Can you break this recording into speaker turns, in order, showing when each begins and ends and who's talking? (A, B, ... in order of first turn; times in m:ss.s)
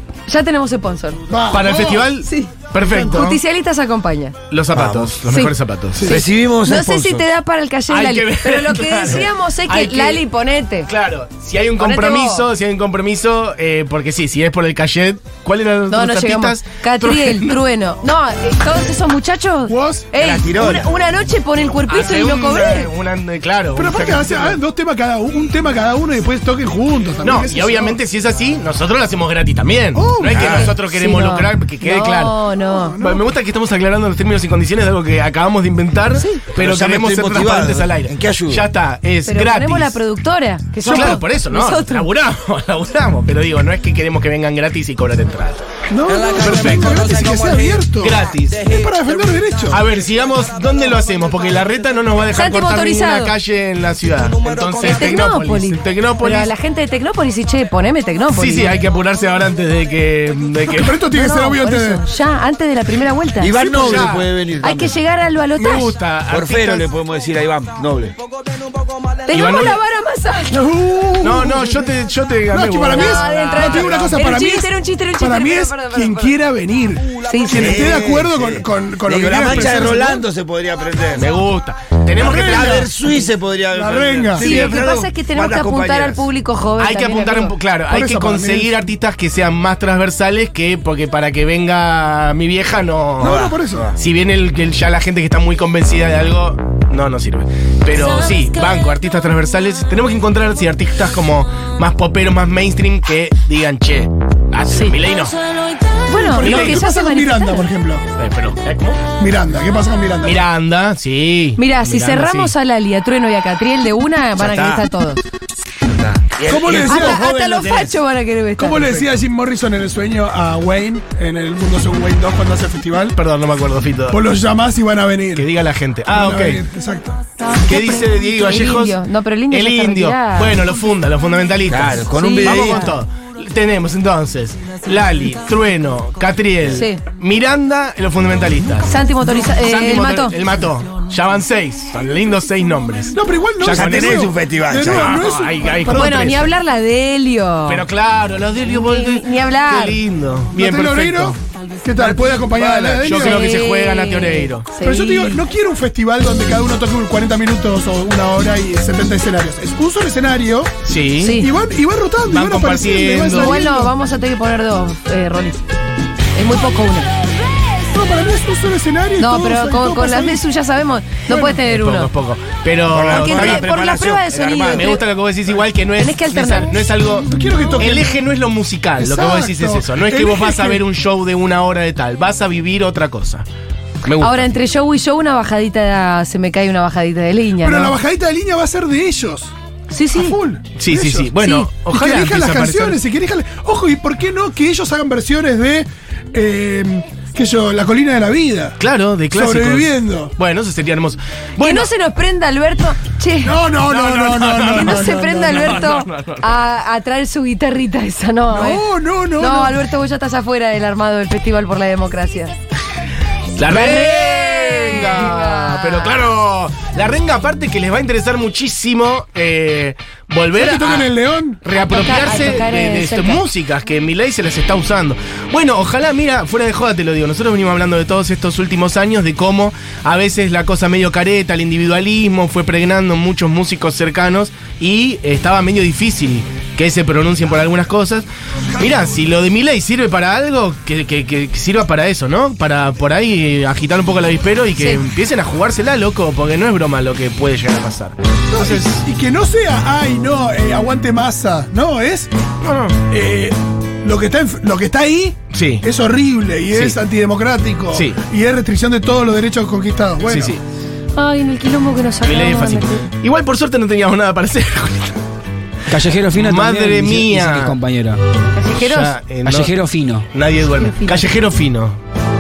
0:00.3-0:01.2 A
0:01.3-0:02.1 B
0:01.5-0:03.4 C
0:02.2-0:04.4 A
0:04.5-0:06.1 C
0:04.7-0:05.2 D
0:05.3-0:05.5 A
0:05.9-0:06.2 B
0:06.0-0:07.3 D
0:06.1-0:10.9 A
0:07.9-0:10.2 C
0:10.9-0:17.6 C
0:11.8-0:12.5 A
0:15.9-0:22.9 A
0:19.7-0:20.1 B
0:20.2-0:20.9 D
0:21.9-0:24.6 C
0:23.8-0:28.0 B
0:27.2-0:32.4 C
0:29.9-0:30.7 B
0:30.3-0:30.7 D
0:30.6-0:33.0 A
0:32.7-0:33.3 B
0:33.0-0:40.0 C
0:36.6-0:38.6 D
0:39.3-0:42.1 A
0:40.8-0:45.6 C
0:40.8-0:41.2 B
0:45.9-0:49.8 B
0:46.3-0:47.2 C
0:48.0-0:48.7 C
0:49.7-0:56.5 C
0:52.4-0:53.3 A
0:54.8-0:58.8 A
0:58.3-1:01.0 C
1:00.7-1:02.0 B
1:01.1-1:05.9 A
1:03.4-1:05.0 D
1:03.6-1:04.3 C
1:05.6-1:06.9 C
1:06.3-1:08.2 D
1:09.3-1:10.6 A
1:09.3-1:09.8 C
1:10.5-1:11.9 B
1:11.2-1:14.2 C
1:12.5-1:20.2 B
1:12.9-1:16.4 A
1:17.3-1:17.8 A
1:17.5-1:21.3 D
1:21.2-1:22.9 C
1:22.2-1:22.9 B
1:22.2-1:26.2 D
1:23.7-1:24.7 B
1:24.4-1:27.5 A
1:26.8-1:33.4 C
1:27.9-1:28.8 B
1:33.2-1:33.9 B
1:33.2-1:34.0 D
1:34.0-1:45.4 C
1:46.1-1:47.7 A
1:46.2-1:48.0 B
1:46.4-1:46.8 C
1:48.2-1:49.0 C
1:49.2-1:50.4 B
1:50.2-1:52.5 C
1:51.6-1:55.2 A
1:54.4-1:54.8 D
1:55.9-1:58.0 D
1:56.4-1:57.2 B
1:56.8-1:59.1 A
1:58.6-2:03.2 B
2:03.2-2:04.2 C
2:04.1-2:05.5 B
2:05.4-2:06.6 C
2:06.1-2:07.2 B
2:07.6-2:10.6 A
2:07.6-2:09.0 C
2:09.5-2:24.3 C
2:11.7-2:12.9 D
2:12.2-2:13.0 A
2:16.7-2:17.0 A
2:18.9-2:20.4 A
2:23.1-2:26.4 B
2:23.7-2:25.2 D
2:24.8-2:26.5 C
2:25.9-2:27.8 A
2:27.7-2:31.4 C
2:28.7-2:30.0 A
2:30.5-2:33.5 B
2:32.0-2:34.7 C
2:33.1-2:35.4 A
2:34.8-2:40.8 B
2:40.8-2:41.4 C
2:41.2-2:41.5 A
2:41.3-2:43.9 B
2:42.3-2:43.6 C
2:43.3-2:45.6 A
2:46.4-2:47.1 A
2:47.9-2:50.4 B
2:49.2-2:52.1 A
2:51.3-2:51.6 B
2:51.6-2:53.7 C
2:52.9-2:55.0 D
2:53.1-2:55.0 A
2:54.7-3:03.4 C
2:56.0-2:56.8 A
2:57.3-2:58.1 B
2:59.0-3:00.8 B
3:04.0-3:04.5 C
3:04.2-3:08.0 A
3:07.6-3:09.5 B
3:09.9-3:10.4 A
3:10.1-3:18.8 B
3:10.8-3:13.0 C
3:11.4-3:11.7 A
3:18.8-3:21.9 C
3:19.3-3:20.3 B
3:21.6-3:23.6 A
3:23.4-3:25.9 B
3:23.9-3:26.4 C
3:24.7-3:28.8 A
3:28.5-3:29.8 B
3:29.4-3:32.5 A
3:33.6-3:41.1 C
3:33.7-3:36.3 A
3:40.5-3:41.6 B
3:41.6-4:09.0 C
3:41.8-3:43.4 A
4:08.5-4:12.3 B
4:12.6-4:13.0 C
4:13.0-4:20.6 B
4:15.5-4:15.8 C
4:17.9-4:18.2 C
4:20.3-4:20.6 C
4:21.2-4:23.1 A
4:22.2-4:25.2 C
4:25.9-4:28.2 E
4:26.3-4:27.8 C
4:28.6-4:29.2 A
4:28.7-4:29.7 C
4:29.4-4:30.3 E
4:30.3-4:32.0 C
4:30.7-4:31.3 A